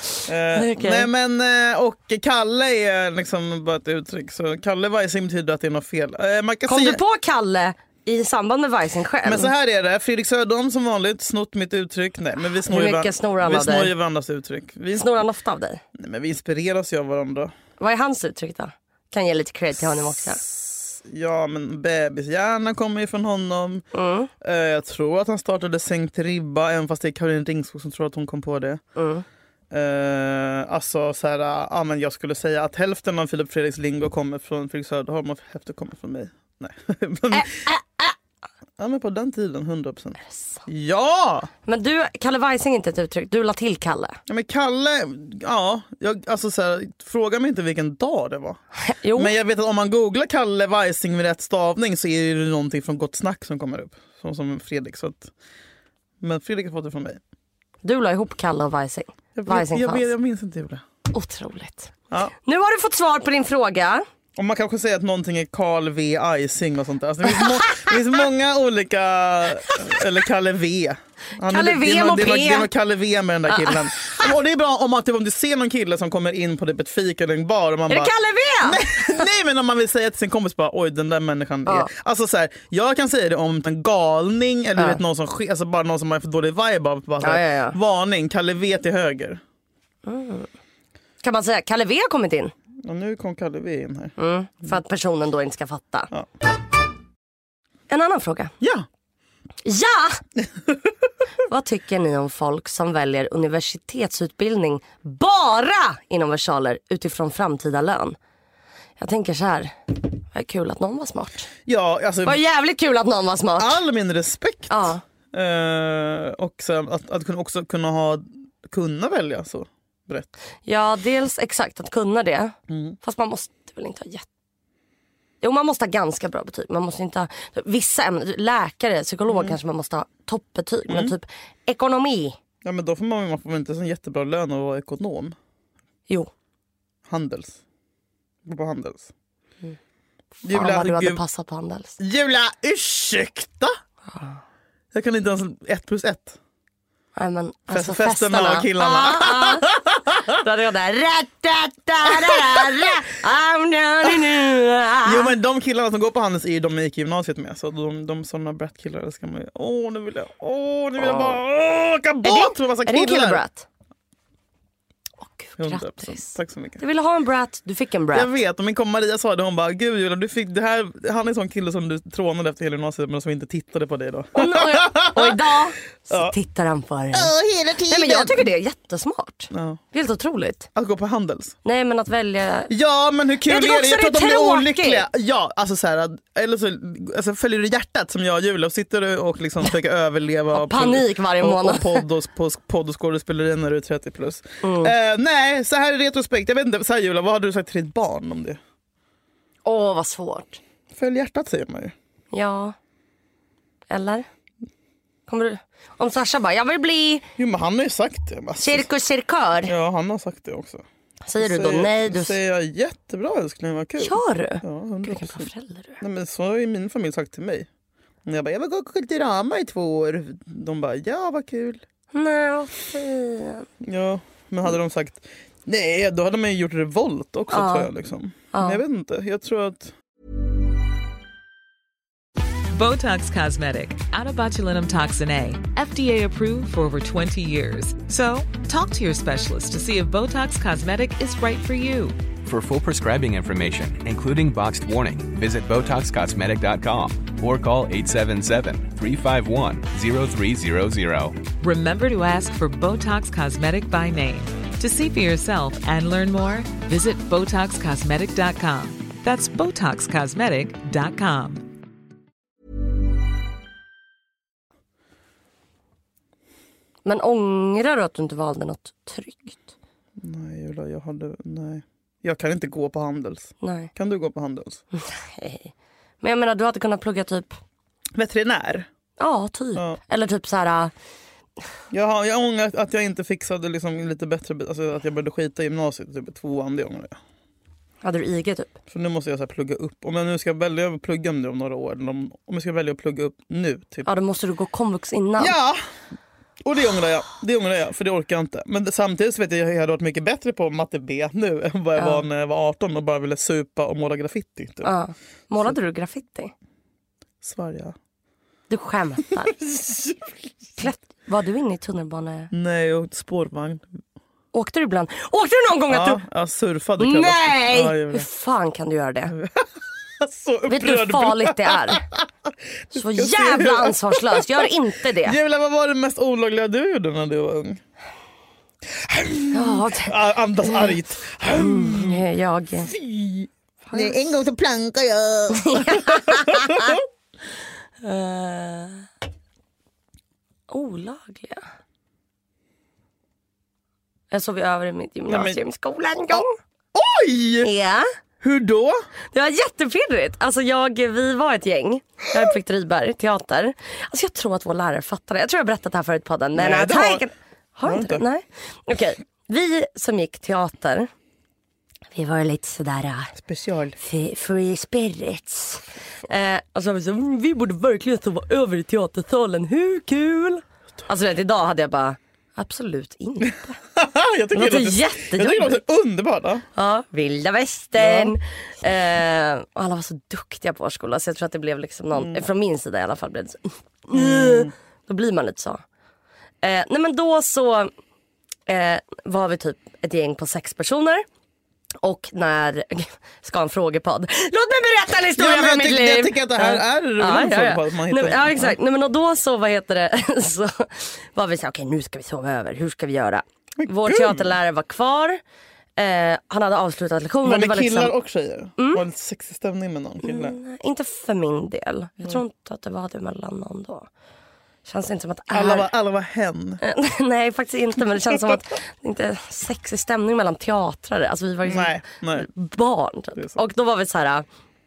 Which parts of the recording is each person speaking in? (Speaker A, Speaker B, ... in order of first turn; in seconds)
Speaker A: 0.2-7.0, 9.2-15.0, 15.9-17.5, 20.4-23.9, 24.4-28.8, 29.7-37.7, 38.8-41.5, 44.3-48.6, 49.1-55.3, 56.2-57.2, 59.3-60.8, 64.3-89.4, 92.8-94.1, 98.6-98.8, 111.7-112.4, 113.6-120.3, 122.7-123.0, 129.3-129.6, 130.9-131.1, 132.6-135.3, 137.1-137.6, 138.4-139.1, 140.4-141.2, 142.0-143.8, 144.9-146.4, 147.7-150.4, 152.1-152.9, 155.0-163.4, 165.6-166.8, 168.1-175.4, 176.1-176.3, 177.1-178.5, 179.5-179.8, 180.8-181.6, 182.7-198.6, 200.9-201.9, 207.4-208.8, 209.7-210.8, 211.4-217.7, 218.2-221.8, 223.8-229.9, 270.2-274.8, 278.1-278.9, 279.7-280.0, 281.9-287.2, 288.9-294.1, 295.4-295.8, 296.6-304.9, 307.4-307.9, 309.5-310.5, 312.5-313.9, 315.9-318.3, 319.3-327.8, 328.9-332.2, 332.8-337.0, 345.3-345.6, 346.9-347.7, 348.4-349.0, 356.5-357.2, 357.8-358.2, 363.3-364.0, 373.9-376.6, 378.0-378.3, 382.1-382.4, 384.1-384.7, 395.3-398.8, 403.8-404.5, 407.4-410.6, 415.5-416.8, 421.6-422.5
Speaker B: 0.5-1.1, 6.7-9.5, 12.7-13.9, 14.9-15.8, 17.8-20.4, 23.9-24.3, 28.9-29.2, 37.3-38.1, 40.3-40.6, 41.6-44.2, 48.8-49.3, 57.8-60.1, 61.1-64.0, 67.4-67.9, 71.4-72.7, 73.5-74.3, 77.9-79.3, 84.8-85.0, 87.2-87.8, 90.0-90.5, 91.2-92.5, 94.2-96.1, 97.9-98.5, 99.6-100.2, 101.5-108.2, 109.0-111.5, 112.2-113.8, 114.7-115.0, 120.7-124.2, 125.4-132.4, 140.4-142.0, 144.1-144.4, 147.2-149.7, 150.3-155.3, 161.0-161.4, 162.2-163.7, 165.2-168.3, 174.3-177.3, 177.9-180.7, 181.6-182.7, 183.4-185.1, 190.5-192.0, 194.6-194.9, 199.6-200.6, 202.3-202.8, 203.9-204.3, 205.3-207.3, 208.6-209.7, 211.2-212.4, 214.0-216.0, 222.1-223.7, 227.5-227.9, 228.5-228.8, 267.0-269.6, 273.6-273.9, 274.9-277.6, 279.2-280.9, 288.0-288.8, 294.0-295.6, 301.9-302.2, 304.8-306.5, 308.7-309.6, 310.8-312.5, 314.5-316.2, 317.0-319.3, 320.7-322.0, 322.9-325.4, 329.5-330.1, 330.6-330.9, 331.5-332.9, 333.9-334.2, 335.5-337.0, 338.0-339.1, 340.7-341.6, 344.3-346.6, 347.6-348.1, 349.3-361.1, 362.1-363.3, 364.0-373.8, 374.5-375.8, 376.7-385.8, 386.6-387.9, 388.7-391.2, 392.0-405.4, 406.0-408.1, 408.8-409.0, 410.2-414.1, 414.9-415.9, 416.8-424.4
Speaker C: 232.7-242.2, 251.6-261.6
Speaker D: 242.4-251.4